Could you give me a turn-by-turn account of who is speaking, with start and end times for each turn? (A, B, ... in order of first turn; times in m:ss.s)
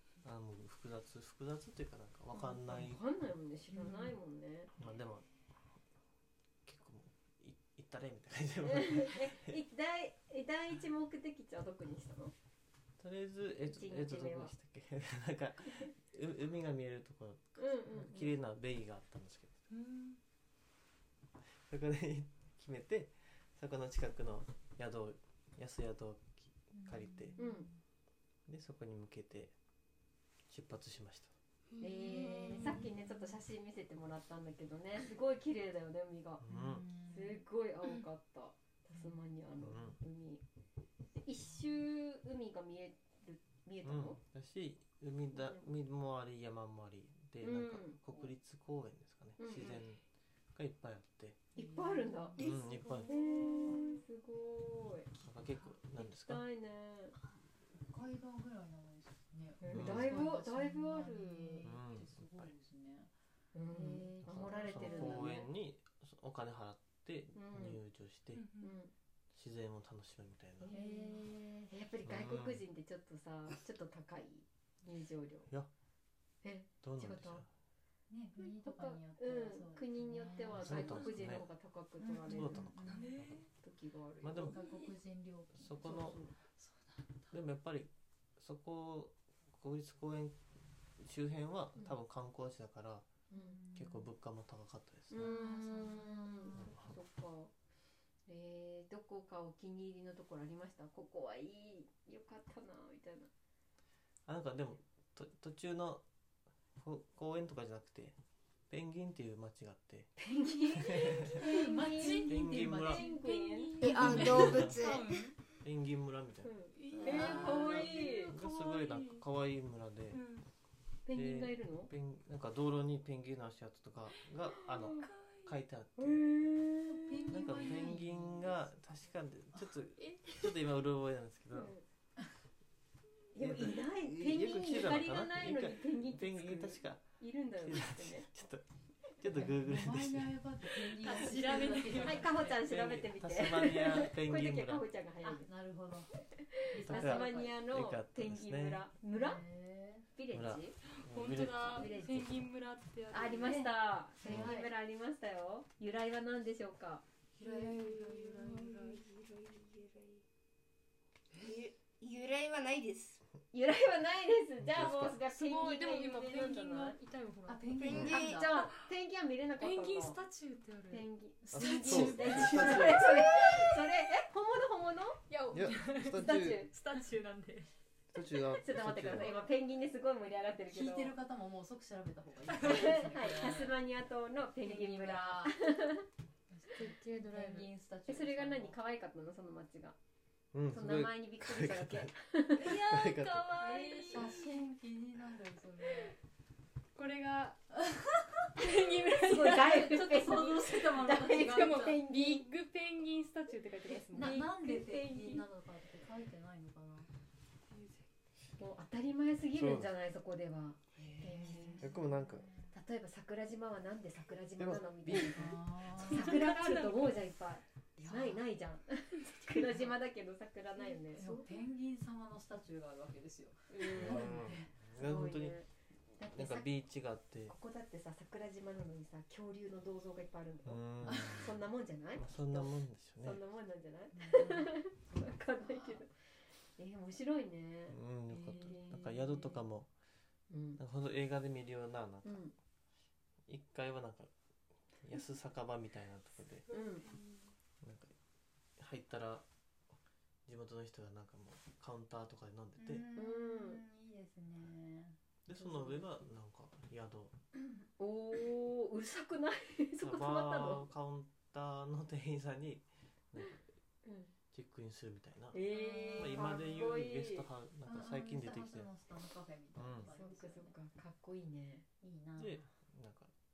0:00.2-0:03.0 A
0:02.4-0:04.7 B
0:04.8-0:05.2 A
0:06.6-0:09.6 A
0:08.6-0:12.3 B
0:13.0-0:19.6 A
0:13.6-0:14.5 B
0:17.6-0:18.3 B
0:19.7-0:20.2 C
0:21.5-0:27.4 A
0:26.7-0:27.8 D
0:27.4-0:27.7 B
0:28.4-0:29.5 A
0:30.5-0:31.3 A
0:31.7-0:32.8 E
0:31.8-0:36.4 B
0:32.6-0:33.3 D
0:36.4-0:36.8 A
0:36.5-0:37.4 D
0:37.1-0:40.4 B
0:39.6-0:40.0 A
0:41.2-0:44.2 B
0:43.8-0:50.0 A
0:45.3-0:45.7 B
0:47.4-0:48.3 B
0:49.4-0:49.8 B
0:49.5-0:50.0 C
0:50.5-0:51.4 A
0:51.6-0:52.4 B
0:51.6-0:52.5 D
0:52.4-0:53.1 A
0:52.8-0:53.8 C
0:53.0-0:55.1 B
0:53.1-0:54.0 D
0:55.2-0:56.4 A
0:56.0-0:57.2 B
0:57.7-1:03.1 D
0:59.6-1:01.7 B
0:59.7-1:00.2 A
1:01.6-1:02.5 A
1:03.5-1:05.5 B
1:03.7-1:05.4 D
1:04.2-1:08.4 A
1:07.3-1:07.8 B
1:08.3-1:08.8 C
1:08.6-1:08.9 B
1:09.3-1:10.7 A
1:10.7-1:11.7 D
1:10.7-1:15.5 B
1:12.0-1:12.6 A
1:16.4-1:17.4 B
1:16.8-1:17.5 A
1:18.1-1:21.1 D
1:18.4-1:22.7 B
1:20.6-1:21.4 A
1:22.0-1:23.1 D
1:22.3-1:23.4 A
1:22.8-1:23.5 C
1:23.6-1:24.5 B
1:24.2-1:24.6 A
1:24.4-1:26.3 D
1:24.5-1:24.9 C
1:25.6-1:26.2 A
1:25.9-1:26.2 B
1:26.6-1:27.2 C
1:27.3-1:30.4 A
1:31.0-1:33.1 A
1:33.3-1:33.6 B
1:33.3-1:34.1 D
1:33.7-1:35.3 A
1:35.1-1:37.5 B
1:35.2-1:36.7 D
1:36.5-1:36.9 A
1:38.3-1:43.3 B
1:44.2-1:46.0 A
1:46.8-1:48.2 A
1:48.7-1:50.1 A
1:50.2-1:53.9 B
1:50.4-1:53.1 D
1:50.8-1:51.2 A
1:51.6-1:55.4 C
1:52.3-1:53.0 A
1:53.8-1:55.3 E
1:53.9-1:54.5 D
1:54.1-1:54.9 A
1:55.6-1:56.5 A
1:56.4-1:58.3 B
1:56.7-1:59.2 C
1:57.0-1:57.8 D
1:57.4-2:00.2 A
2:00.1-2:00.5 C
2:01.0-2:01.9 B
2:01.1-2:06.2 A
2:04.6-2:05.1 B
2:05.0-2:05.5 C
2:06.0-2:07.3 B
2:06.8-2:08.6 D
2:07.3-2:11.7 A
2:07.4-2:08.0 C
2:10.0-2:10.6 C
2:11.5-2:11.8 B
2:13.3-2:18.3 B
2:13.4-2:18.6 A
2:19.2-2:20.4 A
2:19.3-2:22.4 D
2:20.9-2:22.6 C
2:22.0-2:25.5 B
2:22.5-2:24.8 A
2:25.2-2:26.1 D
2:26.5-2:29.4 B
2:26.7-2:27.6 D
2:26.8-2:28.8 A
2:29.1-2:30.0 D
2:30.1-2:30.7 B
2:30.3-2:32.1 A
2:30.9-2:33.6 C
2:31.7-2:32.4 B
2:33.1-2:37.0 B
2:33.4-2:34.7 D
2:34.2-2:34.5 A
2:37.4-2:38.9 D
2:37.4-2:39.0 C
2:38.7-2:40.2 E
2:41.4-2:43.2 E
2:43.5-2:47.0 B
2:44.6-2:45.2 A
2:45.2-2:47.9 C
2:47.4-2:48.6 D
2:47.8-2:48.5 E
2:47.9-2:50.2 B
2:48.6-2:48.9 C
2:49.6-2:53.8 C
2:50.9-2:55.2 B
2:51.5-2:53.2 A
2:51.6-2:52.5 D
2:55.3-2:57.7 C
2:55.5-2:56.6 A
2:56.1-2:56.7 B
2:58.1-2:59.4 A
2:58.5-3:01.1 B
3:00.7-3:03.8 D
3:02.5-3:03.0 C
3:02.6-3:06.0 B
3:04.6-3:05.6 D
3:06.5-3:08.7 D
3:06.7-3:07.7 C
3:08.1-3:09.9 B
3:10.5-3:13.7 A
3:10.7-3:12.8 B
3:12.6-3:14.6 C
3:13.7-3:16.1 D
3:15.8-3:16.1 C
3:16.9-3:24.5 C
3:19.2-3:22.5 B
3:19.4-3:22.0 D
3:23.9-3:25.4 B
3:24.1-3:27.1 D
3:27.7-3:28.0 C
3:28.6-3:32.0 B
3:29.5-3:29.9 A
3:31.0-3:32.7 D
3:31.8-3:32.5 A
3:32.7-3:41.5 B
3:34.6-3:35.6 A
3:35.3-3:36.5 D
3:35.9-3:37.2 C
3:38.0-3:38.4 D
3:39.2-3:39.8 C
3:41.1-3:44.7 D
3:43.7-3:44.4 B
3:43.9-3:45.6 A
3:45.0-3:45.6 B
3:46.2-3:46.8 B
3:46.3-3:47.5 A
3:47.5-3:56.1 B
3:50.6-3:51.6 A
3:51.0-3:51.4 D
3:52.2-3:53.4 A
3:54.1-3:56.0 D
3:56.8-3:59.6 B
3:57.9-3:59.9 A
3:58.3-3:58.8 D
4:00.5-4:00.8 B
4:00.8-4:02.4 A
4:02.2-4:02.5 B
4:03.5-4:04.3 A
4:05.0-4:06.7 A
4:06.7-4:07.1 B
4:07.8-4:08.1 A
4:08.8-4:09.4 A
4:10.4-4:13.0 A
4:12.8-4:15.2 D
4:13.2-4:13.8 B
4:15.4-4:17.3 A
4:15.5-4:16.0 B
4:18.0-4:20.8 B
4:20.0-4:23.6 A
4:24.0-4:24.3 B
4:24.5-4:25.6 A
4:25.5-4:27.4 B
4:25.7-4:26.7 D
4:26.2-4:28.9 A
4:27.8-4:30.7 D
4:29.7-4:30.1 A
4:30.0-4:31.8 B
4:32.0-4:32.6 D
4:32.4-4:33.3 A